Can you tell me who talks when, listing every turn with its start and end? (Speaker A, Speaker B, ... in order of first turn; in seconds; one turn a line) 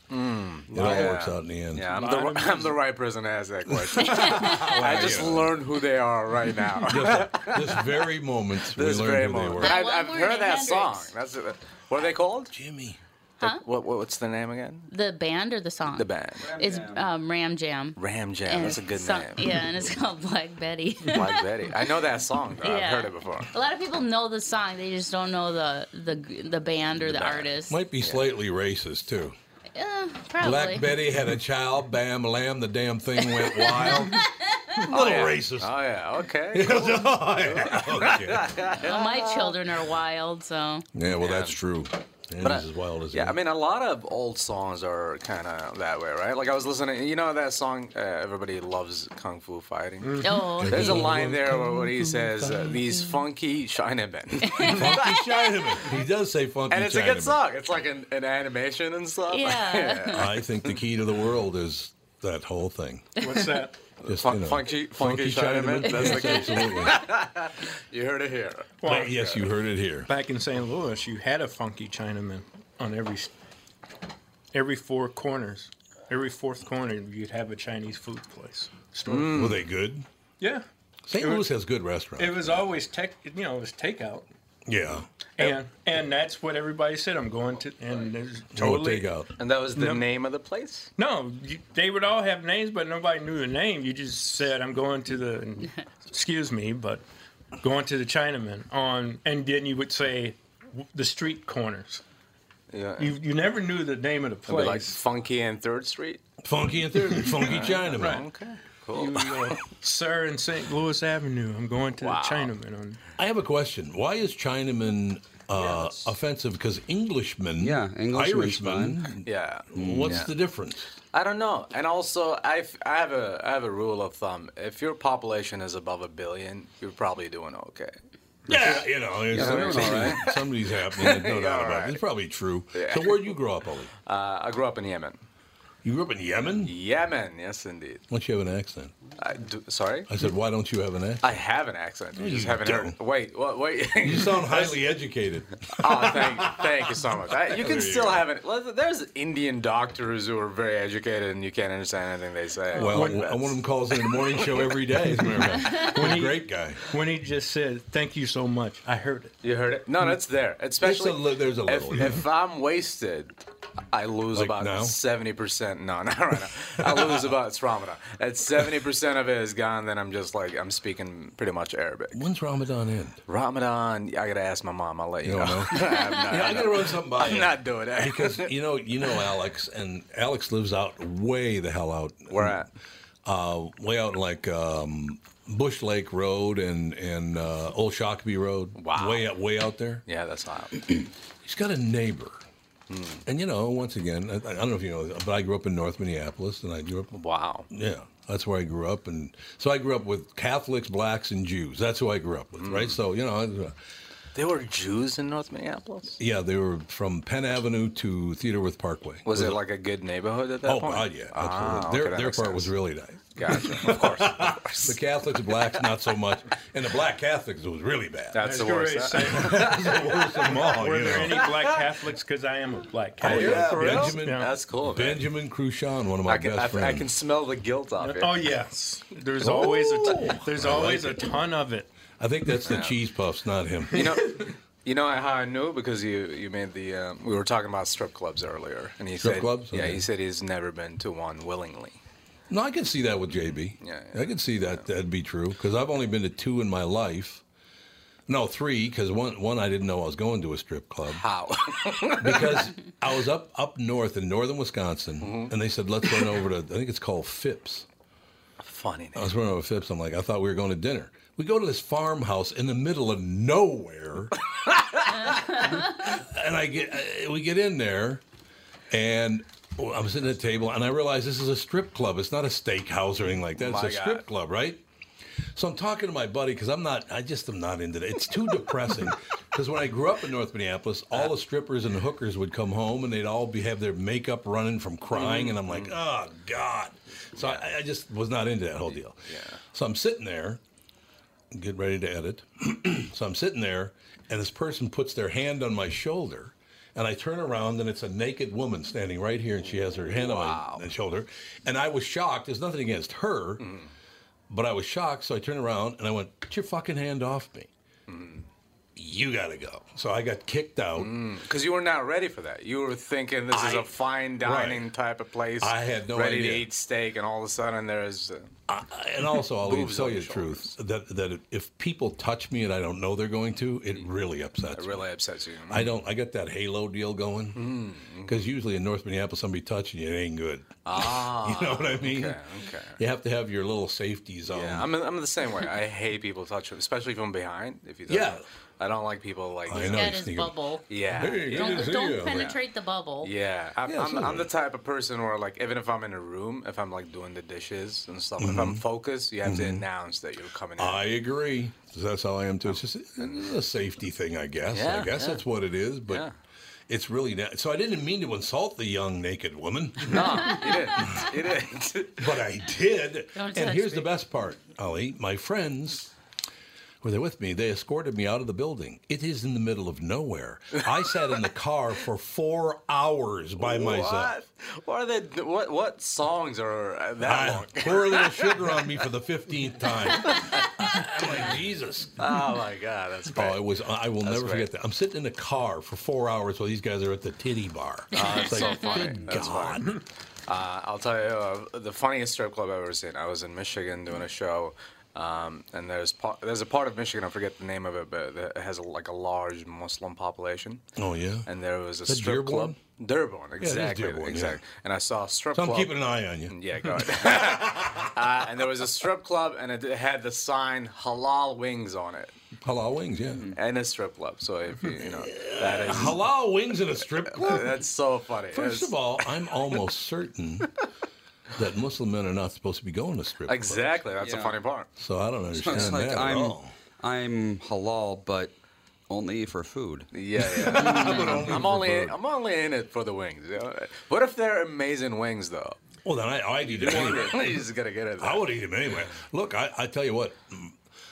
Speaker A: 0.1-7.9
Speaker B: 0.7-1.3
Speaker C: 0.7-1.9
Speaker B: 1.8-2.8
Speaker C: 3.9-5.6
Speaker D: 4.1-4.9
Speaker C: 6.9-9.8
Speaker A: 8.7-12.5
Speaker D: 9.6-11.1
Speaker C: 12.5-13.0
Speaker A: 13.4-14.9
Speaker D: 14.9-21.9
Speaker A: 16.0-16.4
Speaker E: 16.4-17.1
Speaker A: 18.0-19.6
Speaker A: 21.1-23.5
Speaker D: 22.6-27.8
Speaker A: 27.0-27.5
Speaker C: 27.7-29.4
Speaker D: 29.7-30.9
Speaker C: 30.4-34.2
Speaker D: 33.3-34.8
Speaker C: 34.8-35.8
Speaker A: 34.9-39.6
Speaker C: 36.5-38.6
Speaker D: 38.8-40.9
Speaker C: 40.9-43.4
Speaker A: 41.2-41.6
Speaker A: 42.4-55.8
Speaker B: 50.0-50.5
Speaker D: 50.2-51.0
Speaker C: 50.6-52.9
Speaker D: 54.5-54.9
Speaker C: 54.6-57.4
Speaker A: 56.7-60.3
Speaker D: 59.3-60.3
Speaker C: 60.1-63.2
Speaker B: 63.2-63.8
Speaker A: 64.0-69.4
Speaker C: 64.0-67.0
Speaker D: 66.0-66.7
Speaker B: 68.8-69.2
Speaker C: 68.8-70.1
Speaker B: 70.1-73.3
Speaker B: 74.5-79.3
Speaker A: 79.0-79.6
Speaker C: 79.3-80.1
Speaker B: 80.4-80.7
Speaker C: 81.1-82.7
Speaker B: 81.2-81.5
Speaker B: 82.2-84.3
Speaker C: 84.7-85.1
Speaker B: 85.4-89.1
Speaker C: 88.5-89.3
Speaker A: 89.4-90.9
Speaker B: 89.7-90.1
Speaker B: 91.0-97.0
Speaker B: 97.6-102.0
Speaker A: 102.7-103.2
Speaker B: 103.0-105.0
Speaker A: 104.5-106.2
Speaker C: 106.4-108.2
Speaker B: 107.1-108.3
Speaker A: 107.3-109.3
Speaker B: 108.9-113.0
Speaker A: 112.0-112.5
Speaker C: 113.2-120.9
Speaker E: 117.6-119.0
Speaker A: 119.2-120.3
Speaker E: 119.8-120.3
Speaker A: 121.1-128.0
Speaker C: 128.5-133.9
Speaker A: 128.5-130.3
Speaker E: 129.3-130.3
Speaker A: 130.9-132.0
Speaker A: 132.7-133.3
Speaker A: 134.1-135.2
Speaker C: 135.8-136.7
Speaker A: 136.6-138.0
Speaker C: 138.1-138.9
Speaker A: 139.2-140.1
Speaker C: 140.1-141.4
Speaker A: 141.2-144.8
Speaker C: 142.2-143.0
Speaker C: 144.0-148.3
Speaker A: 145.8-153.6
Speaker C: 152.7-156.8
Speaker B: 152.8-153.3
Speaker B: 155.8-159.3
Speaker A: 159.4-163.4
Speaker C: 160.8-162.2
Speaker A: 163.9-172.2
Speaker C: 164.3-165.0
Speaker C: 166.8-167.3
Speaker C: 172.1-173.2
Speaker A: 173.3-178.5
Speaker C: 175.2-182.6
Speaker A: 182.3-182.7
Speaker C: 183.2-190.0
Speaker A: 188.8-189.3
Speaker A: 190.1-191.0
Speaker C: 191.4-192.4
Speaker A: 192.9-193.2
Speaker C: 193.3-203.8
Speaker A: 197.1-197.7
Speaker A: 202.6-203.0
Speaker A: 204.3-206.2
Speaker C: 206.2-209.6
Speaker A: 209.2-212.7
Speaker C: 210.6-218.4
Speaker A: 213.3-215.7
Speaker A: 218.3-220.5
Speaker B: 218.4-224.5
Speaker C: 219.2-221.4
Speaker A: 221.1-221.8
Speaker C: 223.2-227.1
Speaker A: 223.2-225.2
Speaker A: 226.3-228.4
Speaker B: 228.0-231.9
Speaker C: 229.4-231.3
Speaker C: 232.2-234.2
Speaker A: 232.6-233.0
Speaker B: 233.9-234.5
Speaker A: 233.9-242.0
Speaker C: 239.2-240.1
Speaker C: 242.5-247.4
Speaker A: 243.8-244.8
Speaker C: 248.3-251.3
Speaker A: 251.1-252.7
Speaker C: 252.2-257.9
Speaker A: 255.2-255.5
Speaker A: 258.6-259.3
Speaker C: 259.2-264.4
Speaker A: 264.7-265.4
Speaker C: 265.7-268.2
Speaker C: 268.9-274.9
Speaker A: 273.6-274.2
Speaker C: 275.5-290.6
Speaker A: 285.1-286.0
Speaker A: 287.3-287.7
Speaker A: 288.9-289.6
Speaker C: 291.5-303.6
Speaker A: 300.1-300.9
Speaker A: 303.6-303.9
Speaker C: 304.5-307.7
Speaker A: 308.1-308.5
Speaker C: 309.0-311.1
Speaker A: 311.0-318.5
Speaker C: 313.5-314.9
Speaker C: 315.6-316.7
Speaker C: 318.7-325.1
Speaker A: 319.5-320.7
Speaker A: 324.7-325.9
Speaker C: 325.7-327.7
Speaker A: 327.6-328.4
Speaker C: 328.2-332.4
Speaker A: 330.9-333.0
Speaker C: 333.0-334.9
Speaker A: 334.5-340.2
Speaker C: 338.1-338.4
Speaker C: 339.7-340.6
Speaker D: 339.8-343.3
Speaker A: 340.9-342.5
Speaker C: 341.2-342.5
Speaker A: 343.2-351.1
Speaker C: 343.9-344.5
Speaker C: 348.4-348.9
Speaker C: 349.4-349.9
Speaker C: 350.8-356.3
Speaker A: 352.6-353.5
Speaker A: 354.7-355.4
Speaker A: 356.1-356.3
Speaker C: 356.9-361.3
Speaker A: 360.0-362.2
Speaker C: 362.2-366.1
Speaker D: 363.4-364.1
Speaker C: 367.0-374.4
Speaker A: 373.6-378.9
Speaker C: 377.2-382.3
Speaker A: 380.2-381.3
Speaker A: 382.2-383.6
Speaker C: 383.3-390.0
Speaker A: 384.2-384.7
Speaker A: 388.1-400.8
Speaker C: 401.0-401.5
Speaker A: 401.5-406.0
Speaker C: 402.1-402.8
Speaker C: 403.6-404.6
Speaker C: 405.5-408.1
Speaker A: 406.5-412.3
Speaker C: 412.6-413.5
Speaker A: 413.5-416.2
Speaker C: 414.9-417.8
Speaker A: 417.2-419.0
Speaker C: 418.5-420.7
Speaker C: 421.6-424.0
Speaker A: 423.5-424.9
Speaker E: 424.2-424.6
Speaker C: 425.0-426.7
Speaker E: 425.5-428.6
Speaker A: 425.7-426.0
Speaker E: 429.1-430.1
Speaker A: 430.1-435.8
Speaker C: 430.4-432.2
Speaker E: 430.7-431.6
Speaker C: 436.1-437.7
Speaker E: 436.6-437.5
Speaker A: 436.8-438.5
Speaker C: 438.2-440.8